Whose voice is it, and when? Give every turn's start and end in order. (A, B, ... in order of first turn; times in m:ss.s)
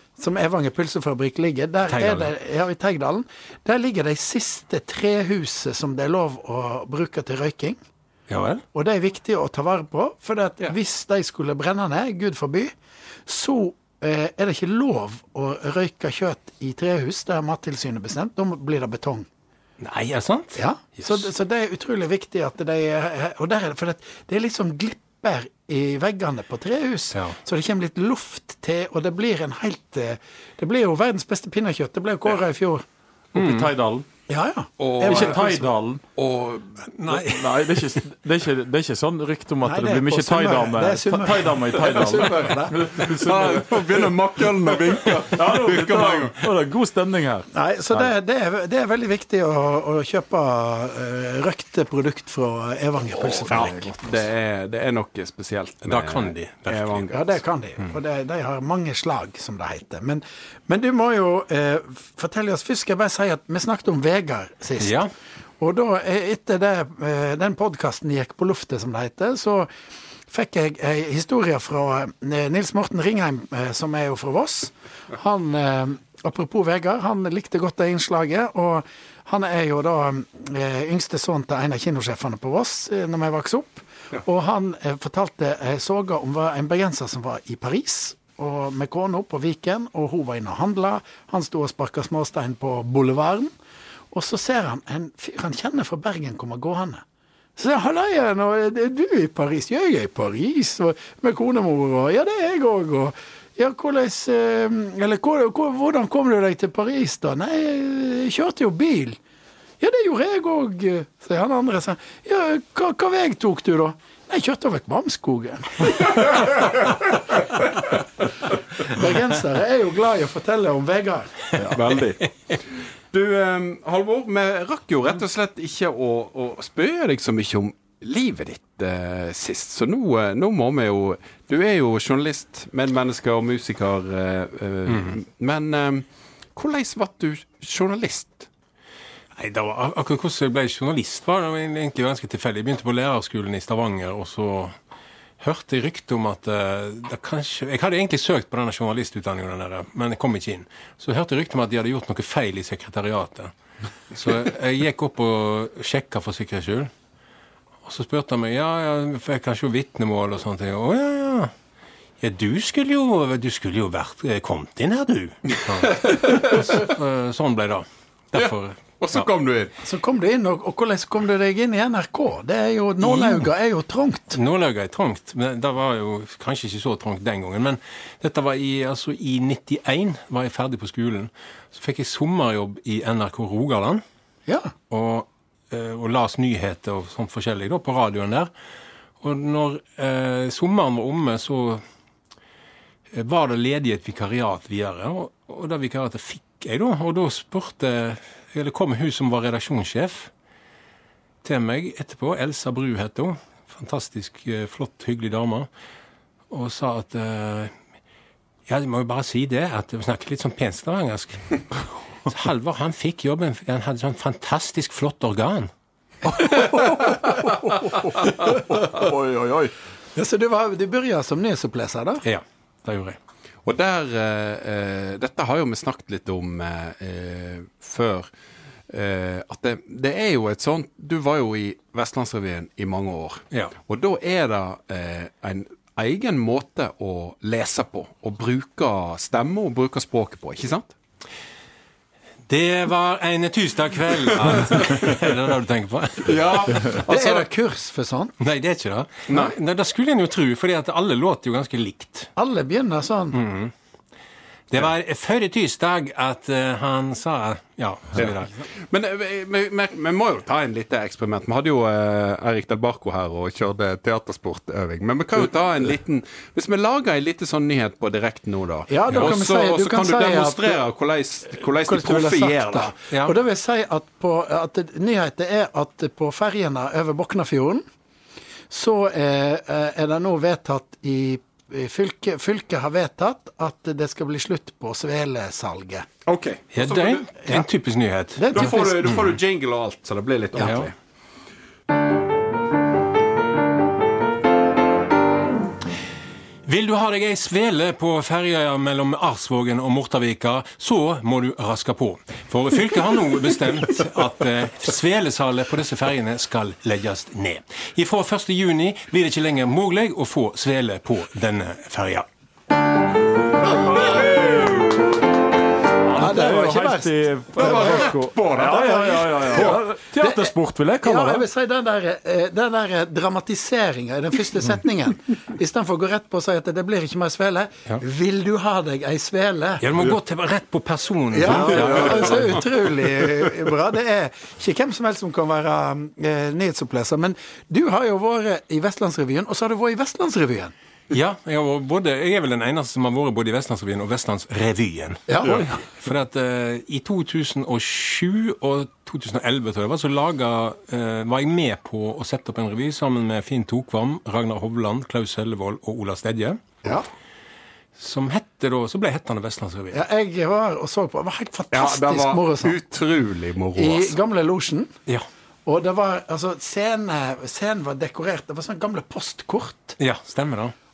0:00.2-0:07.8 A
0:01.9-0:02.3 B
0:08.3-0:08.6 B
0:08.7-0:12.7 A
0:13.3-0:19.3 A
0:19.8-0:21.2 B
0:20.6-0:32.8 A
0:33.3-0:34.1 C
0:33.3-0:33.7 B
0:34.3-0:35.7 A
0:34.8-0:35.4 D
0:35.0-0:36.0 C
0:36.2-0:36.9 D
0:36.9-0:38.0 B
0:37.1-0:44.1 C
0:39.6-0:42.9 A
0:42.9-0:46.5 D
0:45.3-0:48.1 C
0:47.5-0:53.9 A
0:53.2-0:54.0 C
0:53.5-0:57.4 D
0:55.8-0:57.3 B
0:57.1-1:05.0 A
1:04.8-1:05.1 B
1:05.6-1:09.7 A
1:10.3-1:33.5 A
1:34.1-1:37.0 A
1:37.6-1:49.2 A
1:49.8-1:57.0 A
1:58.5-2:01.5 A
2:01.5-2:02.2 C
2:01.7-2:02.1 D
2:03.1-2:18.5 D
2:14.9-2:15.2 B
2:19.4-2:24.7 B
2:25.4-2:33.5 B
2:34.1-2:36.9 B
2:37.8-2:41.5 B
2:42.2-2:49.3 B
2:45.9-2:46.9 D
2:48.3-2:49.7 D
2:49.8-2:54.4 A
2:53.0-2:53.4 B
2:54.3-3:04.0 B
3:04.9-3:08.5 B
3:09.2-3:11.8 B
3:13.1-3:20.3 B
3:21.4-3:25.7 B
3:26.5-3:27.7 B
3:28.7-3:35.7 B
3:36.3-3:39.7 C
3:40.1-3:42.2 A
3:42.2-3:43.2 B
3:43.6-3:48.3 D
3:48.9-4:00.9 D
4:02.5-4:07.0 B
4:06.2-4:07.4 D
4:07.0-4:08.3 A
4:08.4-4:12.3 B
4:09.3-4:09.5 D
4:12.4-4:13.4 A
4:13.3-4:13.7 B
4:14.7-4:18.6 B
4:18.9-4:32.9 D
4:28.9-4:30.8 A
4:29.1-4:29.3 B
4:31.5-4:37.8 A
4:33.1-4:33.4 B
4:38.7-4:46.0 A
4:46.2-4:47.3 D
4:46.7-4:49.3 B
4:48.4-4:49.2 A
4:48.5-4:50.9 D
4:50.5-4:50.9 A
4:50.6-4:50.9 B
4:56.6-5:12.2 B
5:13.9-5:14.7 D
5:16.0-5:21.4 C
5:16.2-5:29.8 A
5:17.6-5:19.1 D
5:29.8-5:32.6 B
5:31.3-5:40.7 A
5:31.5-5:32.4 C
5:41.1-5:56.6 B
5:45.3-5:45.6 A
5:45.4-5:45.8 C
5:58.0-6:00.0 B
5:59.9-6:02.8 A
6:01.7-6:04.2 D
6:03.8-6:04.9 A
6:05.6-6:09.9 A
6:10.0-6:10.7 B